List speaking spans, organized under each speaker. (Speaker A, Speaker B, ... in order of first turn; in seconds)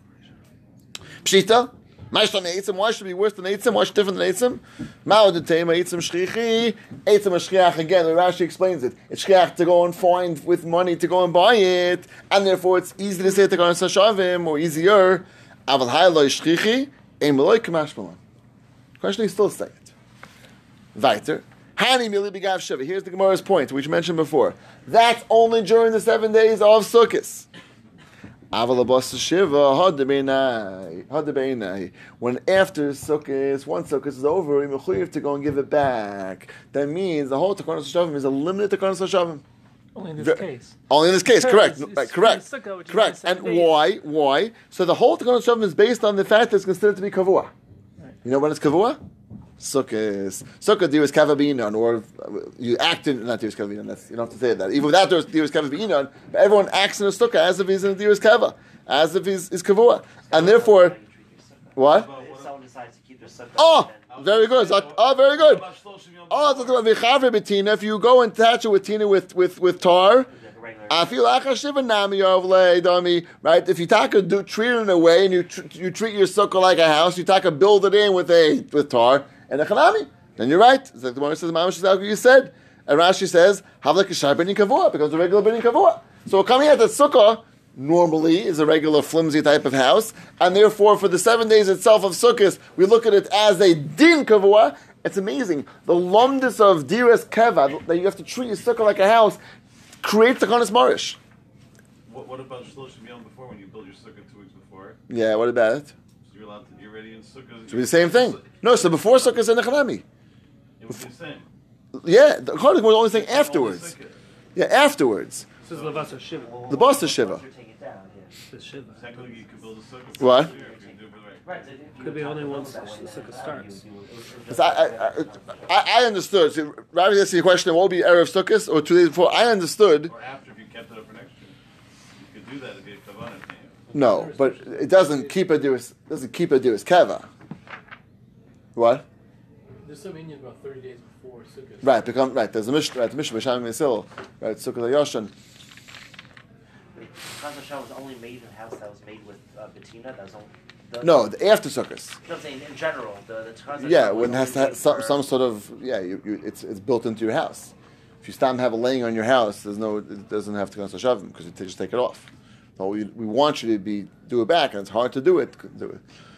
Speaker A: 1.2-18.2, 19.0-19.9, 20.9-27.5, 28.5-39.4, 40.2-47.5, 48.2-49.0, 49.6-61.0, 61.8-62.1, 63.5-65.7, 66.3-70.3, 70.9-99.4, 100.0-101.2, 105.1-105.9, 107.7-110.0, 112.0-113.9, 114.5-115.5, 116.7-117.4, 120.2-120.5, 124.5-130.1, 133.9-137.2, 138.8-139.0, 141.8-145.3, 151.0-152.2, 153.8-157.7, 158.2-166.0
Speaker B: 39.9-43.8, 133.9-135.4, 139.8-142.0
Speaker C: 60.3-64.1, 70.3-71.3, 116.3-118.4, 119.0-125.9, 146.9-151.3, 152.2-155.3
Speaker D: 61.8-62.5, 64.1-66.9, 102.0-105.0, 106.2-109.4, 110.8-111.5, 113.1-114.2, 115.6-116.2, 118.9-121.6, 130.1-131.5, 132.2-133.8
Speaker E: 115.7-116.6, 118.5-119.4, 122.0-123.8